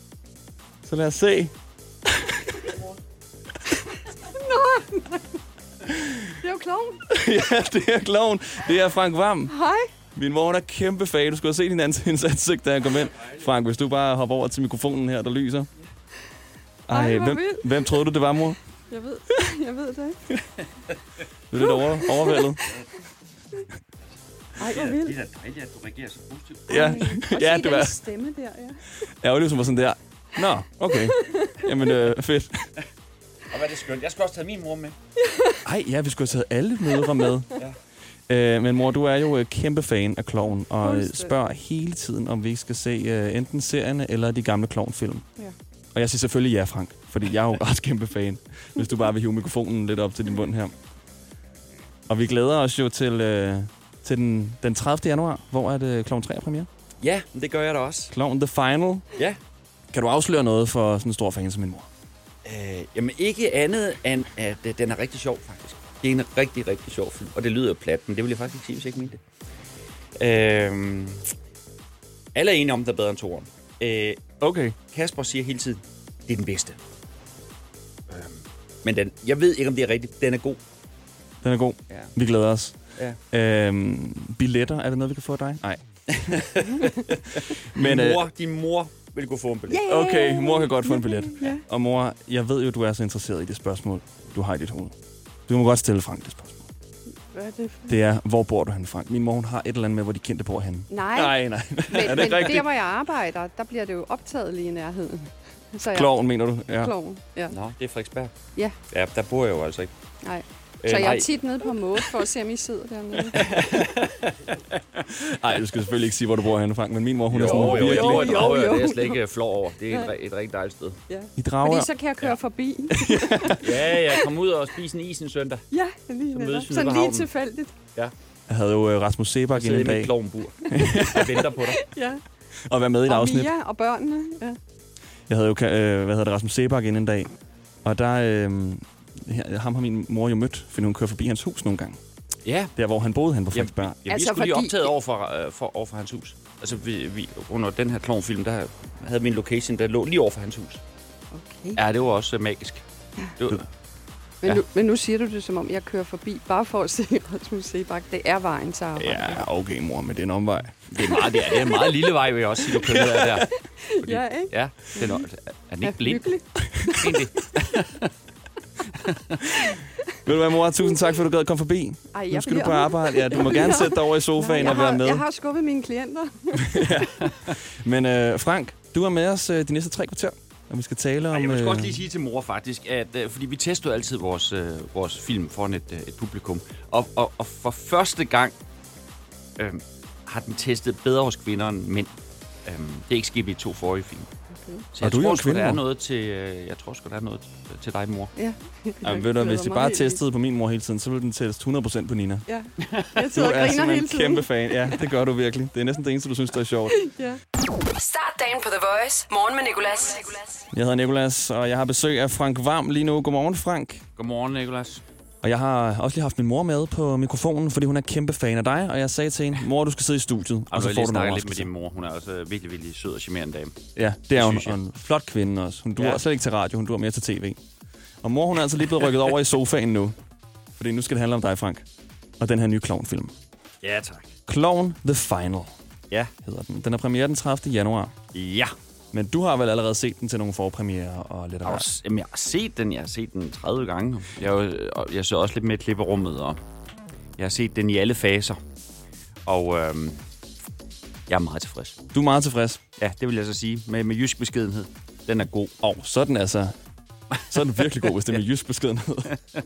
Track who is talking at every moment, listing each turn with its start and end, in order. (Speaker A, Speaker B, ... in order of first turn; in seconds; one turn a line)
Speaker A: 0.8-1.5
Speaker A: 2.1-2.4
Speaker B: 4.3-5.2
Speaker A: 5.9-6.2
Speaker B: 6.4-7.0
Speaker A: 7.1-9.6
Speaker B: 9.5-9.9
Speaker A: 10.1-15.7
Speaker A: 16.9-18.6
Speaker B: 16.9-18.0
Speaker B: 18.9-20.4
Speaker A: 21.5-22.7
Speaker B: 21.6-22.6
Speaker B: 24.6-25.2
Speaker C: 24.6-26.8
Speaker B: 26.7-28.8
Speaker A: 26.7-28.0
Speaker A: 29.2-32.7
Speaker B: 31.0-31.6
Speaker C: 33.5-35.0
Speaker B: 35.2-35.6
Speaker A: 35.6-37.6
Speaker B: 37.0-37.2
Speaker A: 38.3-45.2
Speaker B: 40.8-41.3
Speaker A: 45.9-50.7
Speaker A: 52.1-56.7
Speaker C: 57.0-58.1
Speaker A: 58.1-59.1
Speaker A: 59.9-61.9
Speaker C: 62.4-69.2
Speaker C: 70.2-71.2
Speaker C: 72.3-74.2
Speaker A: 74.4-74.8
Speaker C: 74.9-76.8
Speaker C: 78.1-80.6
Speaker A: 81.4-82.8
Speaker A: 83.3-85.8
Speaker C: 86.1-89.8
Speaker A: 87.7-88.3
Speaker B: 89.7-91.6
Speaker A: 89.8-94.9
Speaker A: 95.5-96.7
Speaker B: 97.3-98.0
Speaker A: 97.9-102.7
Speaker B: 100.9-106.2
Speaker A: 105.9-106.9
Speaker B: 106.7-107.6
Speaker C: 107.5-108.3
Speaker C: 108.9-109.9
Speaker B: 110.2-113.7
Speaker C: 110.8-111.3
Speaker C: 113.3-115.3
Speaker A: 115.2-118.5
Speaker C: 117.3-121.0
Speaker B: 117.4-119.2
Speaker B: 119.8-120.1
Speaker B: 121.1-124.3
Speaker A: 121.3-121.9
Speaker A: 122.9-123.7
Speaker C: 123.6-125.6
Speaker B: 125.7-127.8
Speaker C: 126.3-127.3
Speaker A: 128.5-130.1
Speaker C: 129.5-131.8
Speaker A: 130.7-131.4
Speaker B: 130.8-132.2
Speaker A: 132.7-133.5
Speaker B: 133.1-134.6
Speaker A: 135.3-137.3
Speaker A: 137.8-142.0
Speaker C: 142.4-142.7
Speaker A: 142.8-144.0
Speaker C: 143.5-150.8
Speaker B: 144.1-144.9
Speaker B: 151.3-151.8
Speaker C: 151.7-152.8
Speaker C: 153.4-153.7
Speaker B: 154.4-159.4
Speaker A: 159.0-160.8
Speaker C: 160.9-163.5
Speaker B: 161.1-162.0
Speaker A: 162.9-163.3
Speaker B: 163.8-165.3
Speaker C: 164.0-166.3
Speaker B: 165.8-167.3
Speaker C: 166.9-168.1
Speaker C: 169.0-169.4
Speaker A: 170.2-175.2
Speaker B: 172.1-177.3
Speaker A: 176.7-182.0
Speaker C: 181.3-188.5
Speaker C: 189.6-192.1
Speaker C: 192.6-194.3
Speaker B: 194.5-194.9
Speaker C: 194.9-198.3
Speaker A: 195.0-195.8
Speaker B: 198.3-200.2
Speaker A: 199.0-202.4
Speaker B: 202.5-205.0
Speaker A: 203.3-207.0
Speaker B: 206.9-207.4
Speaker D: 207.9-210.6
Speaker A: 210.7-214.0
Speaker C: 214.2-215.0
Speaker A: 215.4-221.7
Speaker C: 220.7-223.8
Speaker A: 223.9-227.6
Speaker C: 224.3-224.8
Speaker A: 228.2-230.2
Speaker A: 230.8-231.8
Speaker A: 232.4-233.3
Speaker C: 233.8-234.3
Speaker A: 234.5-235.7
Speaker A: 236.4-238.1
Speaker C: 238.3-238.7
Speaker A: 239.1-241.9
Speaker C: 241.6-246.6
Speaker C: 247.4-248.6
Speaker C: 249.4-250.2
Speaker C: 251.3-252.0
Speaker A: 252.1-252.8
Speaker C: 253.0-255.7
Speaker A: 255.8-256.8
Speaker A: 257.5-259.4